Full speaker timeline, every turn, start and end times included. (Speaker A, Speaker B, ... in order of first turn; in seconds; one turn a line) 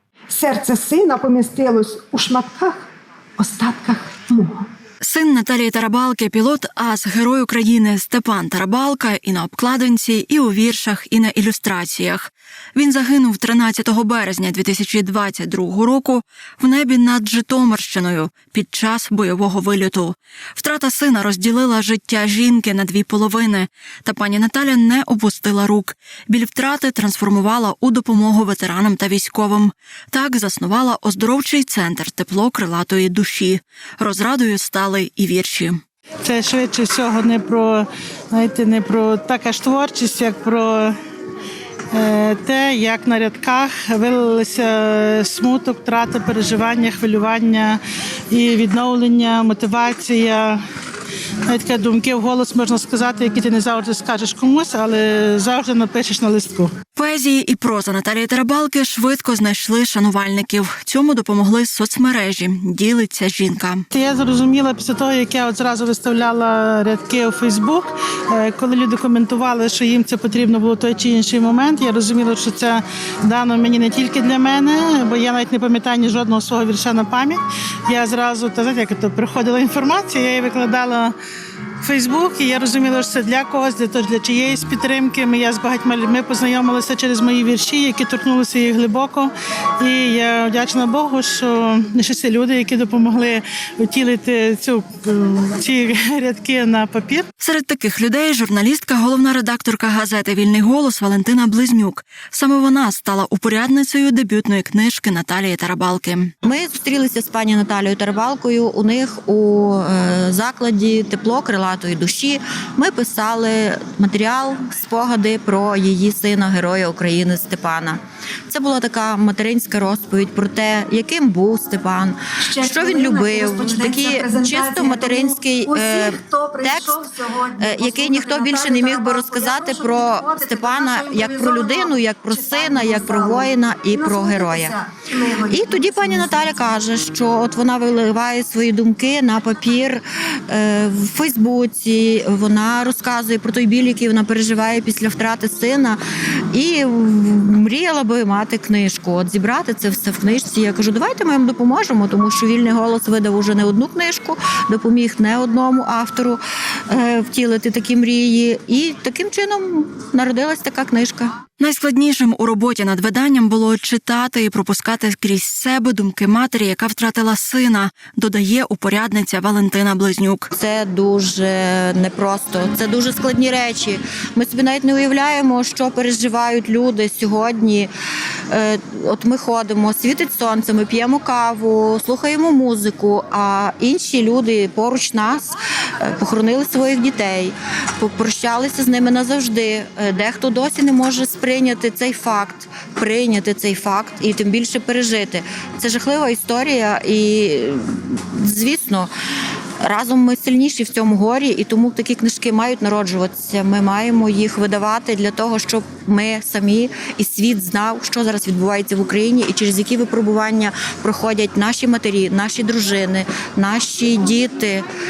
Speaker A: 0.4-2.7
Speaker A: 3.4-4.6
Speaker B: 5.0-35.8
Speaker C: 36.2-40.9
Speaker C: 41.9-47.8
Speaker C: 48.3-50.6
Speaker C: 51.5-56.7
Speaker B: 56.9-63.8
Speaker C: 63.9-81.1
Speaker C: 81.8-97.2
Speaker B: 97.4-106.3
Speaker D: 106.4-127.0
Speaker E: 122.4-136.7
Speaker D: 127.6-134.8
Speaker D: 135.4-146.0
Speaker D: 146.5-161.3
Speaker B: 161.6-170.5
Speaker D: 170.5-177.9
Speaker D: 178.5-199.1
Speaker D: 199.8-214.8